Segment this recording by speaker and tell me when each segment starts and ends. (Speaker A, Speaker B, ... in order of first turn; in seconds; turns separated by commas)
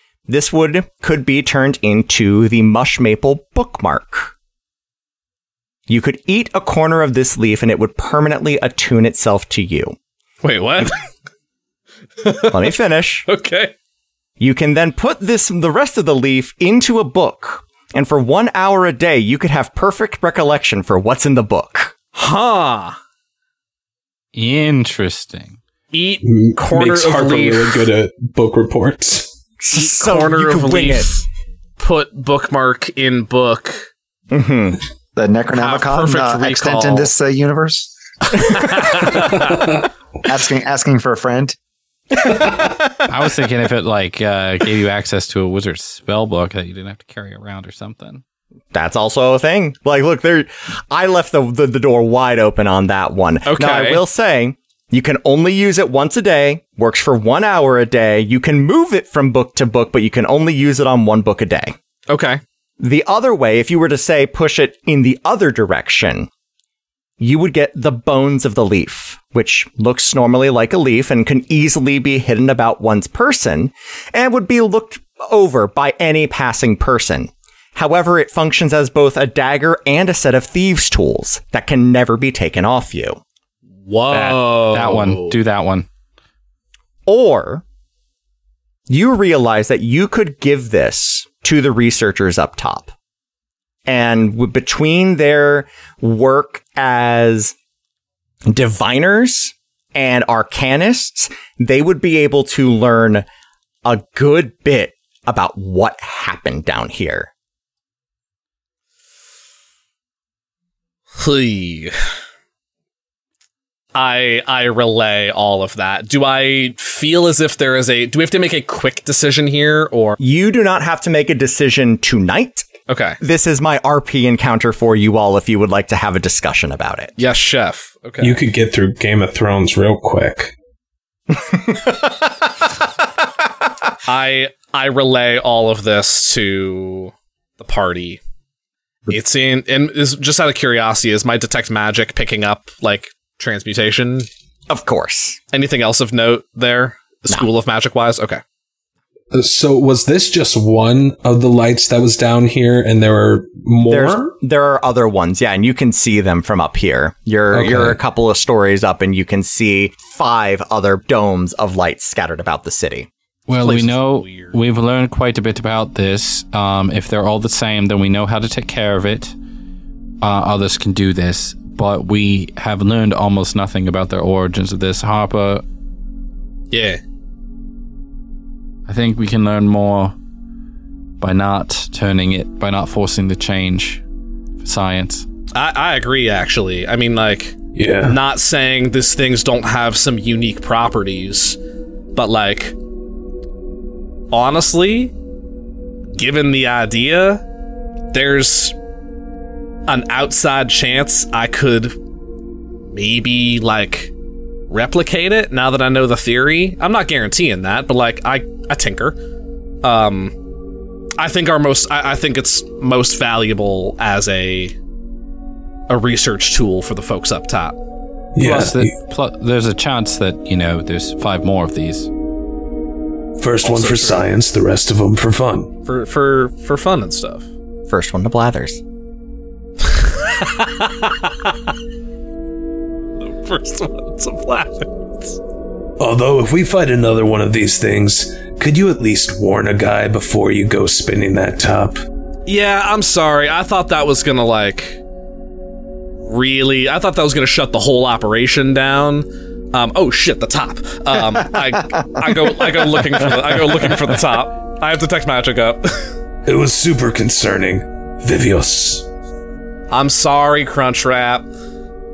Speaker A: 0.3-4.3, Speaker A: 5.9-10.0, Speaker B: 10.4-11.0, Speaker B: 12.2-12.7, Speaker A: 12.5-13.3, Speaker B: 13.3-13.7, Speaker A: 14.4-21.9, Speaker B: 22.1-23.0, Speaker C: 24.3-25.6, Speaker B: 25.9-27.9, Speaker D: 26.2-29.3, Speaker A: 29.6-31.2, Speaker B: 29.7-31.2, Speaker B: 31.8-33.9, Speaker A: 34.3-34.8, Speaker E: 35.2-37.9, Speaker B: 35.5-37.1, Speaker B: 38.4-39.7, Speaker E: 40.2-41.6, Speaker A: 42.3-42.9, Speaker C: 43.1-48.2, Speaker A: 48.7-61.8, Speaker B: 53.5-54.0, Speaker B: 62.1-62.4, Speaker A: 62.8-66.3, Speaker A: 67.2-83.2, Speaker B: 83.8-85.4, Speaker C: 84.1-85.9, Speaker A: 87.1-87.6, Speaker A: 88.9-92.9, Speaker A: 93.9-97.5, Speaker A: 98.5-103.3, Speaker A: 103.8-107.3, Speaker B: 111.2-111.9, Speaker B: 114.0-120.2, Speaker A: 120.2-122.7, Speaker B: 122.9-123.2, Speaker A: 123.2-127.2, Speaker B: 127.2-128.4, Speaker D: 128.2-130.6, Speaker A: 131.4-132.1, Speaker B: 134.1-138.2, Speaker B: 139.1-144.3, Speaker A: 144.7-145.4, Speaker B: 145.5-148.4, Speaker D: 149.3-154.3, Speaker A: 153.9-163.1, Speaker D: 157.5-158.0, Speaker C: 163.5-169.3, Speaker B: 163.6-164.6, Speaker C: 170.2-175.6, Speaker B: 176.7-177.0, Speaker C: 178.9-180.1, Speaker C: 181.2-184.0, Speaker C: 184.6-185.3, Speaker B: 185.5-191.6, Speaker D: 187.8-188.2, Speaker B: 192.2-192.8, Speaker B: 194.3-195.1, Speaker B: 196.2-197.4, Speaker B: 198.1-198.8, Speaker B: 199.9-202.0, Speaker B: 202.9-204.1, Speaker B: 204.7-209.2, Speaker B: 209.8-210.3, Speaker B: 211.2-214.8, Speaker B: 215.9-217.8, Speaker D: 218.3-218.9, Speaker C: 218.4-222.1, Speaker D: 223.4-225.7, Speaker B: 223.6-224.2, Speaker B: 225.8-227.5, Speaker A: 227.9-228.8, Speaker B: 229.8-231.6, Speaker B: 233.2-235.4, Speaker D: 236.0-242.0, Speaker B: 242.5-245.0, Speaker B: 246.2-256.1, Speaker D: 256.5-259.1, Speaker B: 259.9-261.5